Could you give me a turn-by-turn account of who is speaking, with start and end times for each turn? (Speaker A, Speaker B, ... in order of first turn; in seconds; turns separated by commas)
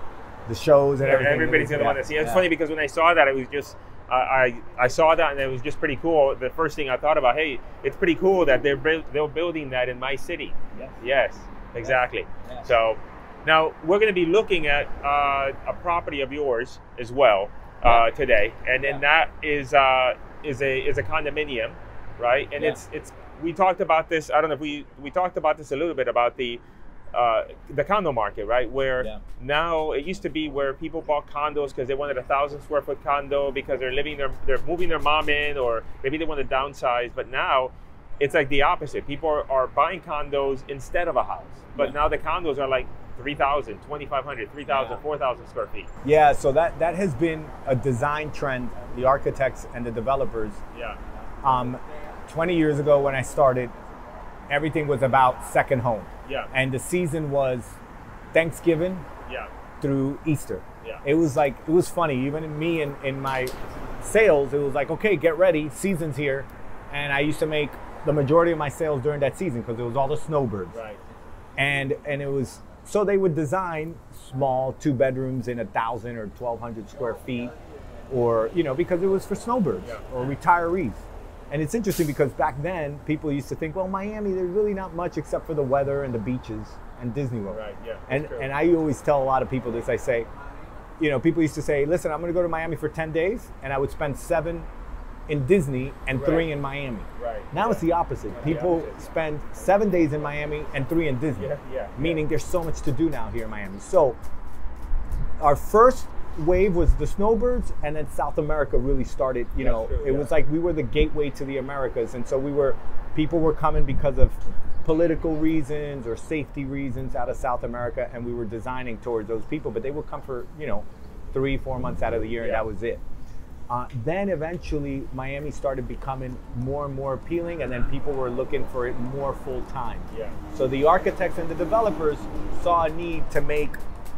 Speaker A: 0.5-2.5, Speaker B: 1.0-26.6, Speaker A: 10.7-11.0, Speaker A: 11.8-12.7, Speaker B: 27.1-45.9, Speaker A: 44.7-45.0, Speaker A: 46.0-50.6, Speaker B: 50.7-51.0, Speaker A: 51.4-53.7, Speaker A: 54.5-57.8, Speaker B: 56.2-56.5, Speaker A: 58.3-59.0, Speaker B: 59.2-59.5, Speaker A: 59.8-70.8, Speaker B: 70.7-71.0, Speaker A: 71.6-77.5, Speaker A: 78.1-90.3, Speaker B: 79.8-80.1, Speaker B: 87.5-88.5, Speaker A: 91.0-94.7, Speaker A: 95.3-104.2, Speaker B: 96.1-96.5, Speaker B: 97.2-99.1, Speaker B: 101.4-102.2, Speaker A: 105.4-123.0, Speaker B: 109.6-110.3, Speaker B: 122.4-122.6, Speaker A: 123.7-133.8, Speaker B: 130.1-130.4